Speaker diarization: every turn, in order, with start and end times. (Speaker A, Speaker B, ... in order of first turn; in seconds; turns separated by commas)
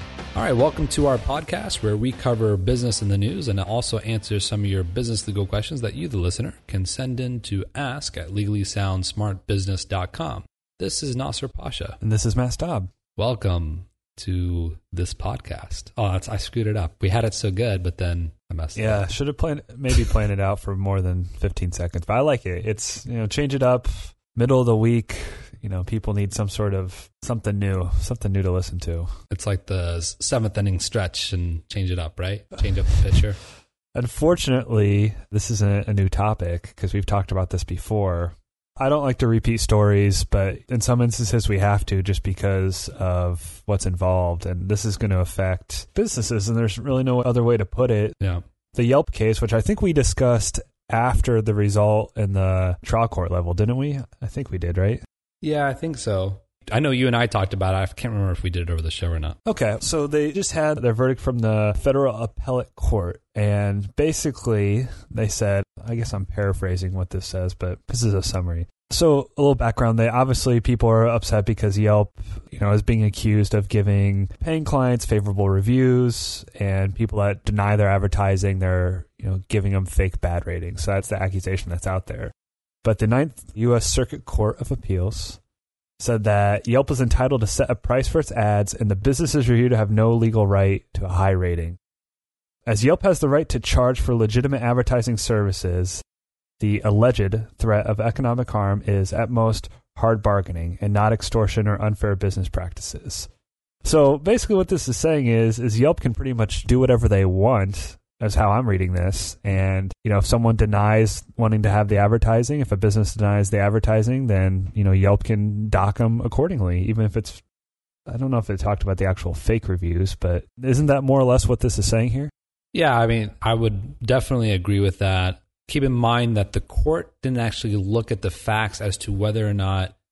Speaker A: 0.3-12.0, Speaker B: 12.0-12.9, Speaker A: 13.2-19.1, Speaker B: 18.7-29.1, Speaker A: 29.3-33.4, Speaker B: 33.9-48.1, Speaker B: 48.7-55.0, Speaker A: 55.4-59.4, Speaker B: 59.5-82.3, Speaker B: 82.8-85.4, Speaker B: 86.0-91.8, Speaker B: 92.7-96.0, Speaker B: 96.6-103.3, Speaker B: 103.8-117.4, Speaker B: 118.1-122.3, Speaker A: 122.7-129.9